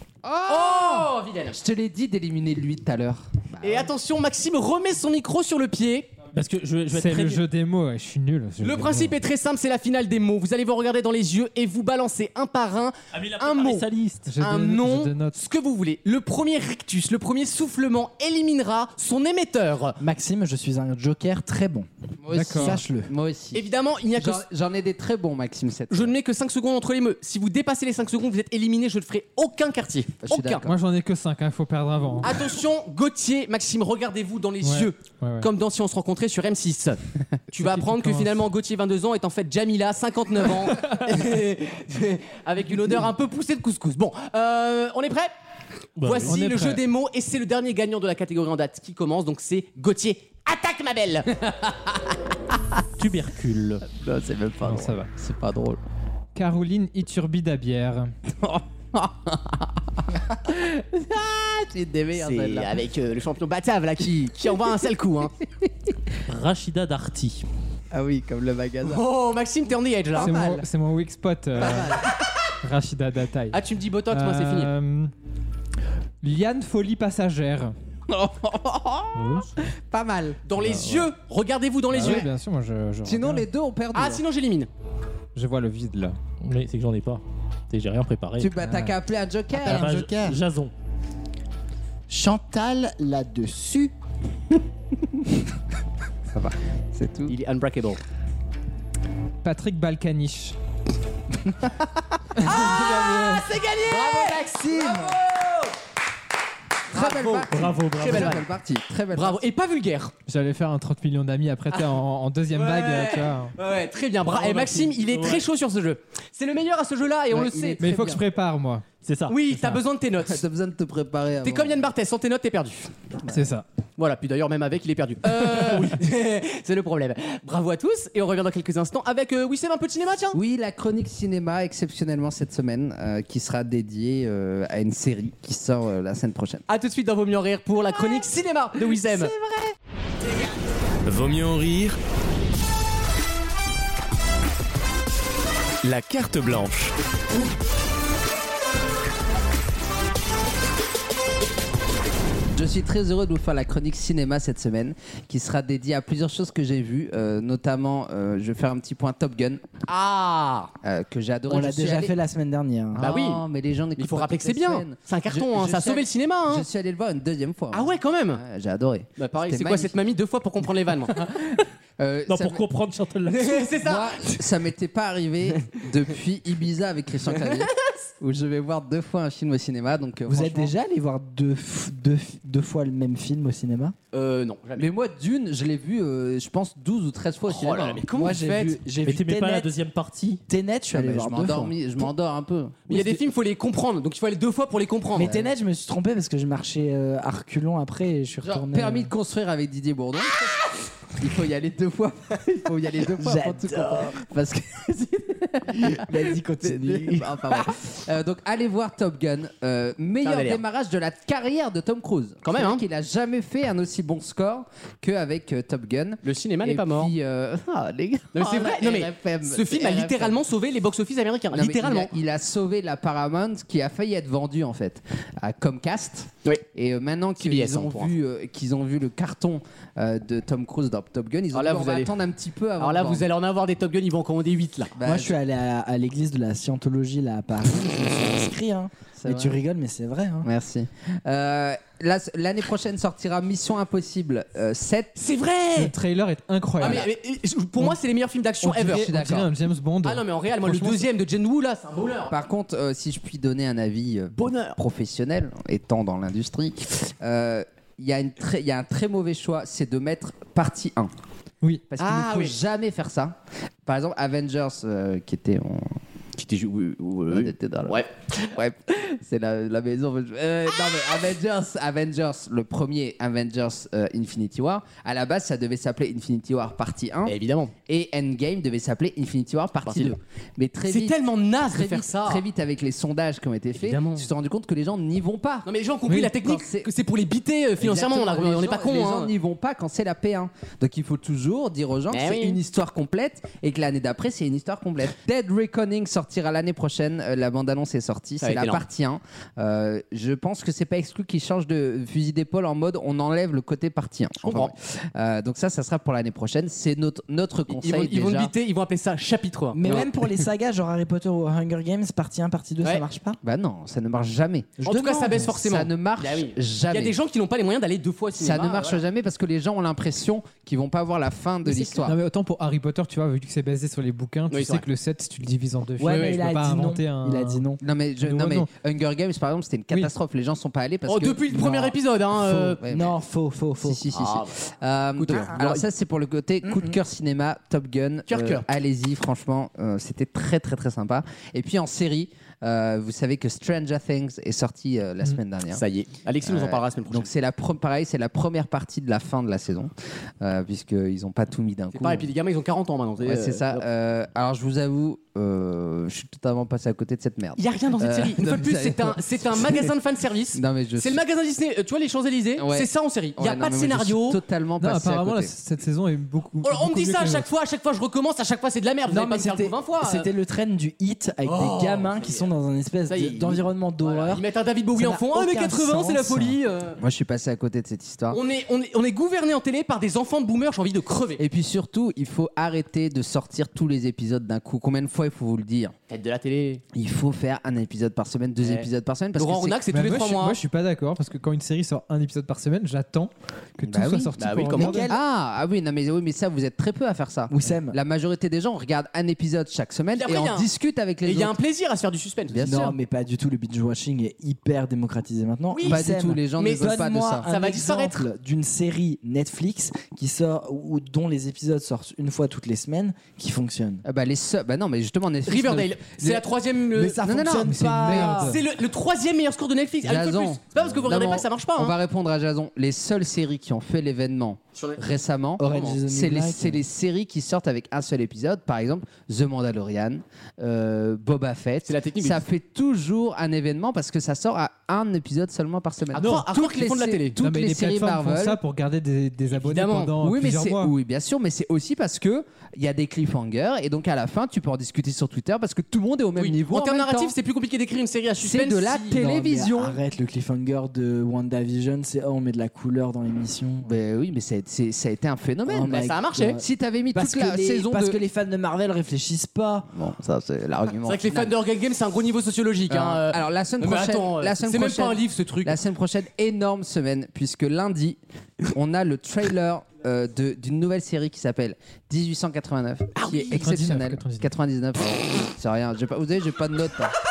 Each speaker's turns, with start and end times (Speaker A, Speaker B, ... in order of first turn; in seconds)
Speaker A: 0.2-3.9, 22.2-23.6, 24.2-26.1, 30.2-30.8, 51.4-52.1, 53.9-55.8, 58.4-62.8, 67.9-69.0, 70.2-70.7, 71.6-72.1, 78.1-80.4, 83.0-84.2, 88.4-90.3, 96.3-97.3, 102.4-105.0, 106.9-109.5, 117.3-118.2, 120.2-121.8, 130.3-136.6, 139.3-139.7, 152.5-159.6, 160.8-162.1, 162.9-170.0, 171.1-172.6, 173.8-180.7, 184.8-188.0, 190.9-193.1, 195.2-195.5, 198.4-200.5, 201.2-220.4, 221.5-233.3, 235.0-235.3, 239.2-239.6, 240.4-245.1, 248.9-249.5, 252.3-261.1, 261.9-266.0, 267.3-277.3, 277.9-281.2, 281.7-285.7, 286.2-286.9, 287.8-308.5, 313.4-314.8, 315.3-317.1, 318.4-322.2, 327.8-333.2, 333.8-345.8, 346.4-352.3, 353.2-359.9, 360.6-361.2, 362.6-365.5, 377.0-378.4, 381.4-385.9, 386.9-389.8, 393.8-394.3, 395.0-401.5, 402.5-403.0, 405.9-407.5, 414.1-416.4, 417.2-418.6, 420.0-438.6, 440.2-447.4, 448.4-450.0, 453.8-456.1, 456.6-458.2, 459.9-461.5, 462.9-477.1
Speaker B: 0.5-1.6, 3.6-6.1, 8.6-13.9, 14.4-20.0, 23.5-24.5, 25.9-30.7, 32.2-37.0, 37.5-45.3, 46.0-51.3, 62.1-65.3, 68.8-70.4, 73.5-74.7, 80.5-82.3, 83.9-84.7, 97.3-98.0, 102.4-105.7, 106.9-108.5, 109.1-110.1, 112.5-118.2, 119.3-120.4, 121.4-122.9, 124.0-130.4, 136.7-139.3, 159.9-160.7, 163.0-163.4, 164.0-166.7, 167.7-168.4, 169.2-171.2, 173.3-174.4, 177.4-177.7, 184.1-184.9, 187.5-188.8, 192.9-195.4, 210.2-210.6, 212.4-212.8, 216.2-217.1, 218.3-222.1, 227.4-228.1, 231.5-232.2, 232.8-234.9, 245.2-245.9, 246.8-249.1, 250.0-252.3, 254.3-254.8, 262.0-262.6, 266.4-268.1, 277.3-277.7, 279.8-280.1, 280.9-282.4, 283.8-284.3, 285.7-289.3, 292.1-292.6, 298.4-298.8, 304.4-304.7, 307.7-310.1, 314.9-319.0, 321.6-322.0, 324.5-324.9, 326.1-326.4, 331.1-332.8, 334.1-334.6, 335.2-335.9, 338.3-338.7, 345.7-347.3, 351.9-353.9, 357.6-364.4, 366.6-370.3, 371.4-372.5, 373.1-377.0, 378.3-381.4, 386.1-386.8, 388.6-390.6, 394.4-395.1, 400.1-400.7, 401.2-402.8, 405.7-408.3, 415.5-417.2, 418.0-422.0, 425.6-426.0, 431.9-432.4, 436.1-437.4, 439.5-440.1, 446.4-449.2, 455.9-456.6, 461.1-465.8, 473.2-473.6
Speaker C: 6.3-7.4, 13.1-14.3, 46.0-46.4, 53.0-53.8, 66.3-67.5, 86.4-88.5, 89.5-90.7, 107.5-108.4, 114.3-115.4, 119.0-119.8, 172.3-173.7, 189.0-190.4
Speaker D: 6.9-9.2, 14.3-15.4, 22.3-22.8, 30.6-32.4, 34.6-35.5, 37.6-38.3, 46.2-46.8, 54.6-55.1, 56.4-58.1, 70.2-72.0, 72.6-73.6, 74.1-75.1, 76.2-77.8, 79.2-79.5, 80.6-81.1, 81.9-83.5, 85.3-86.2, 88.6-89.0, 99.4-100.6, 110.3-113.5, 117.8-118.8, 123.3-123.7, 245.8-247.1, 248.6-251.1, 322.0-327.7, 328.2-328.7, 364.8-367.5, 389.9-395.1, 417.9-418.5, 437.4-440.9, 473.5-474.5
Speaker E: 20.0-21.9, 22.6-23.1, 89.7-90.3, 92.1-93.9, 102.5-103.2, 103.9-105.2, 161.5-163.1, 180.3-183.9, 188.1-189.7, 190.5-192.1, 195.1-199.1, 203.2-204.2, 205.7-207.8, 235.0-240.5, 309.7-313.4, 314.8-315.6, 326.0-327.8, 332.8-334.1, 336.6-337.0, 369.1-376.6, 394.8-395.2, 397.5-398.0, 402.6-414.0, 416.9-418.6, 425.6-426.8, 449.1-453.9, 455.7-459.9
Speaker F: 141.1-142.0, 145.8-146.9